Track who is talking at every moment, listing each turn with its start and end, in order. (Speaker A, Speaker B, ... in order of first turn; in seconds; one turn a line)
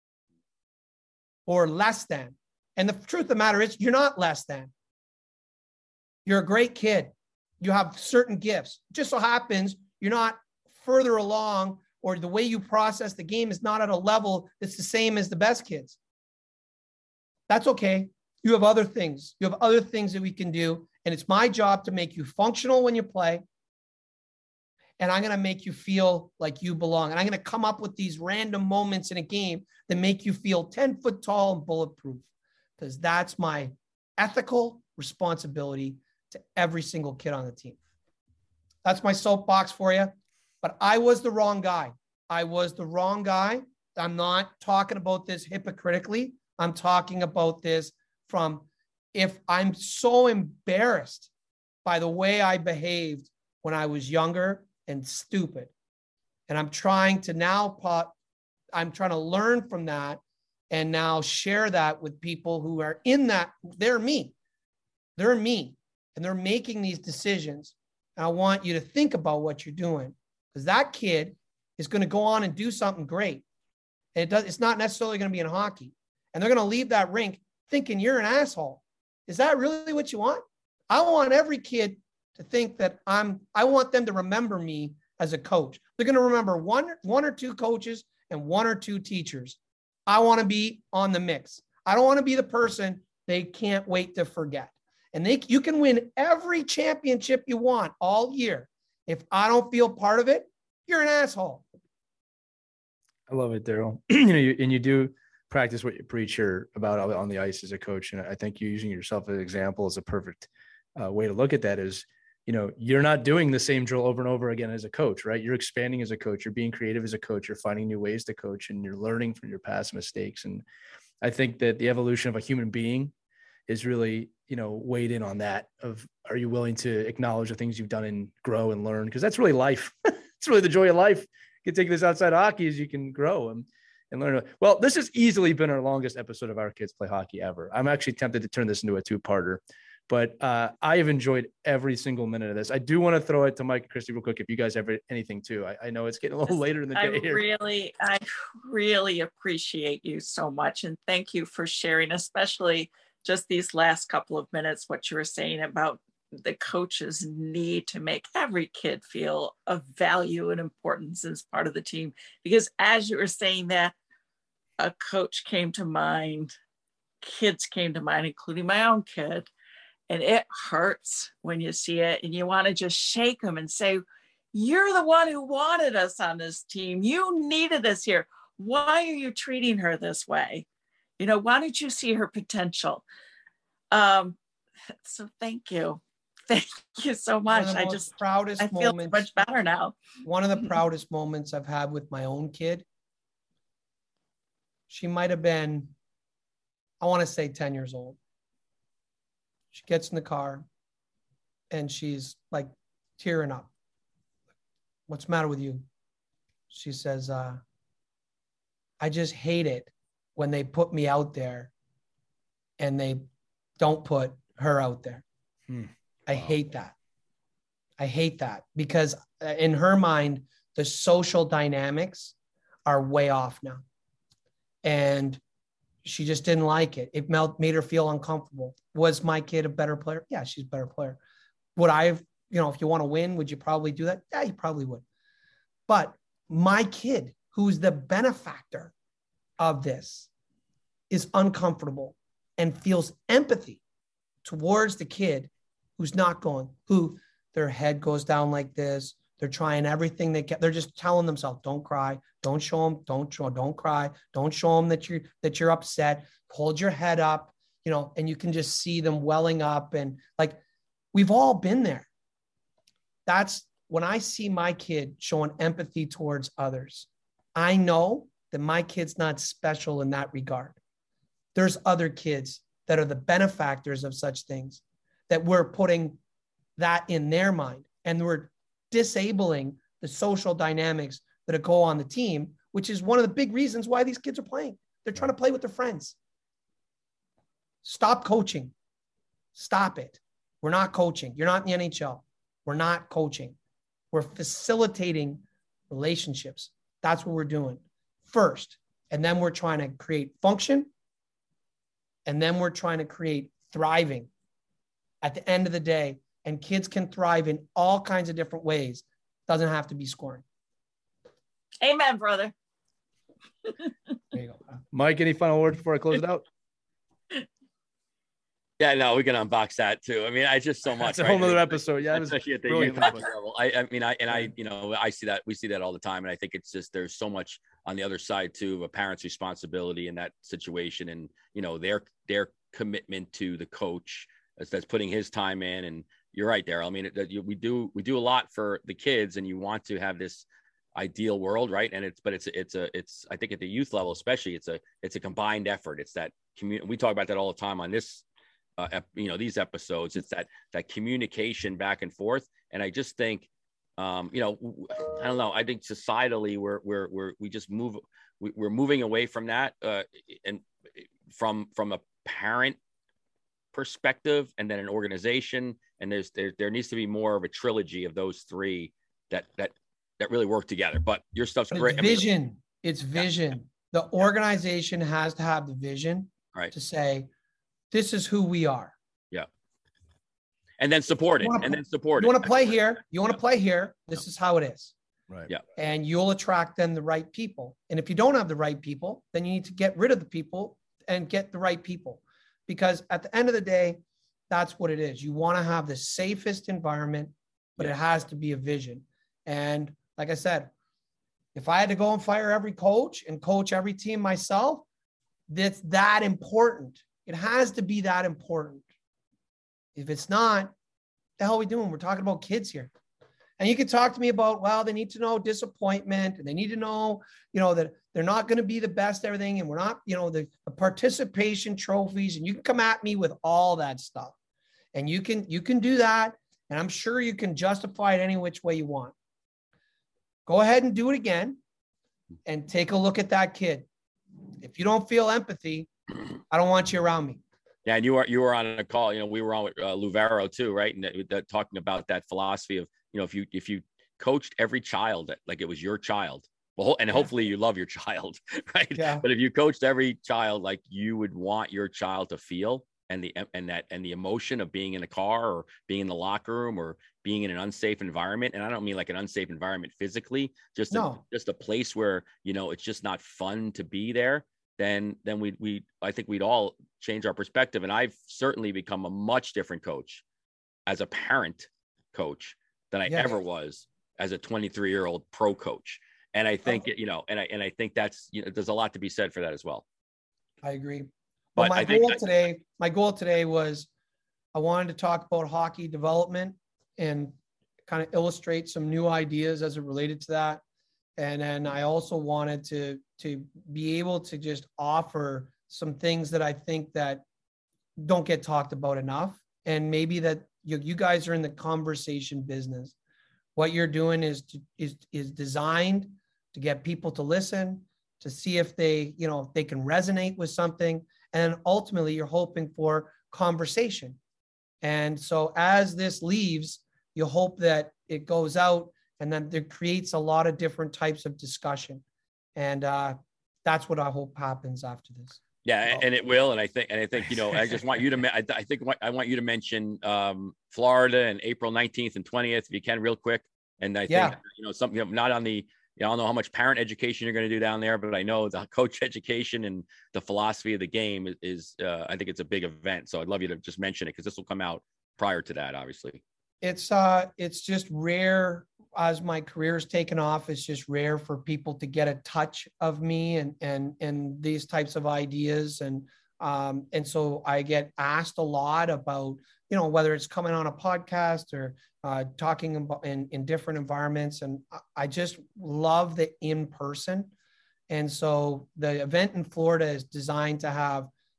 Speaker A: 1.5-4.7
Speaker A: 6.2-16.0
Speaker A: 17.5-23.4
Speaker A: 25.0-32.2
Speaker A: 32.8-37.8
Speaker A: 38.8-51.3
Speaker A: 51.8-55.7
Speaker A: 56.5-58.1
Speaker A: 58.7-64.3
Speaker A: 65.2-73.4
Speaker A: 74.1-101.7
Speaker B: 103.3-120.6
Speaker B: 121.2-123.1
Speaker B: 123.7-147.4
Speaker C: 146.9-163.9
Speaker C: 164.8-166.5
Speaker C: 167.2-169.5
Speaker C: 170.1-180.7
Speaker C: 181.2-183.0
Speaker C: 183.9-184.4
Speaker C: 185.0-190.0
Speaker A: 187.5-189.2
Speaker A: 190.2-192.8
Speaker A: 194.9-195.9
Speaker A: 197.0-198.2
Speaker A: 199.7-200.7
Speaker A: 201.7-203.7
Speaker A: 205.1-205.8
Speaker A: 206.7-207.6
Speaker A: 209.0-211.7
Speaker A: 212.8-213.2
Speaker A: 213.8-215.2
Speaker A: 216.3-216.9
Speaker A: 218.0-222.3
Speaker A: 222.8-223.8
Speaker A: 224.8-225.4
Speaker A: 226.0-231.2
Speaker A: 231.8-235.0
Speaker A: 235.9-238.9
Speaker A: 239.6-240.3
Speaker A: 241.1-243.8
Speaker A: 244.4-260.6
Speaker A: 261.1-262.1
Speaker A: 263.2-270.8
Speaker A: 271.5-276.2
Speaker A: 276.8-286.1
Speaker A: 287.8-288.7
Speaker A: 289.5-293.6
Speaker A: 294.1-300.9
Speaker A: 302.2-304.3
Speaker A: 305.2-310.4
Speaker C: 311.8-312.5
Speaker A: 314.3-314.6
Speaker B: 314.9-316.4
Speaker D: 318.8-348.2
Speaker B: 320.9-323.3
Speaker D: 348.8-360.6
Speaker D: 361.3-362.8
Speaker D: 363.7-372.2
Speaker A: 371.7-377.3
Speaker A: 377.9-378.9
Speaker D: 380.8-382.8
Speaker A: 381.4-384.9
Speaker A: 385.8-400.7
Speaker A: 401.5-404.8
Speaker A: 405.5-408.8
Speaker A: 409.9-410.7
Speaker A: 411.4-412.9
Speaker A: 413.6-424.3
Speaker A: 424.9-429.1
Speaker A: 430.4-431.6
Speaker A: 432.4-433.9
Speaker A: 434.6-435.9
Speaker A: 436.5-437.4
Speaker D: 437.9-470.2
Speaker A: 448.9-449.2
Speaker A: 460.9-461.2
Speaker D: 470.9-479.8
Speaker A: 473.1-473.4
Speaker A: 480.6-483.9
Speaker D: 481.6-482.2
Speaker A: 484.5-487.3
Speaker A: 487.9-490.6
Speaker A: 491.2-497.2
Speaker A: 498.0-502.9
Speaker A: 503.6-514.2
Speaker A: 514.8-522.0
Speaker A: 522.5-525.4
Speaker D: 525.6-546.2
Speaker A: 534.1-534.4
Speaker A: 546.6-567.3
Speaker A: 567.9-571.1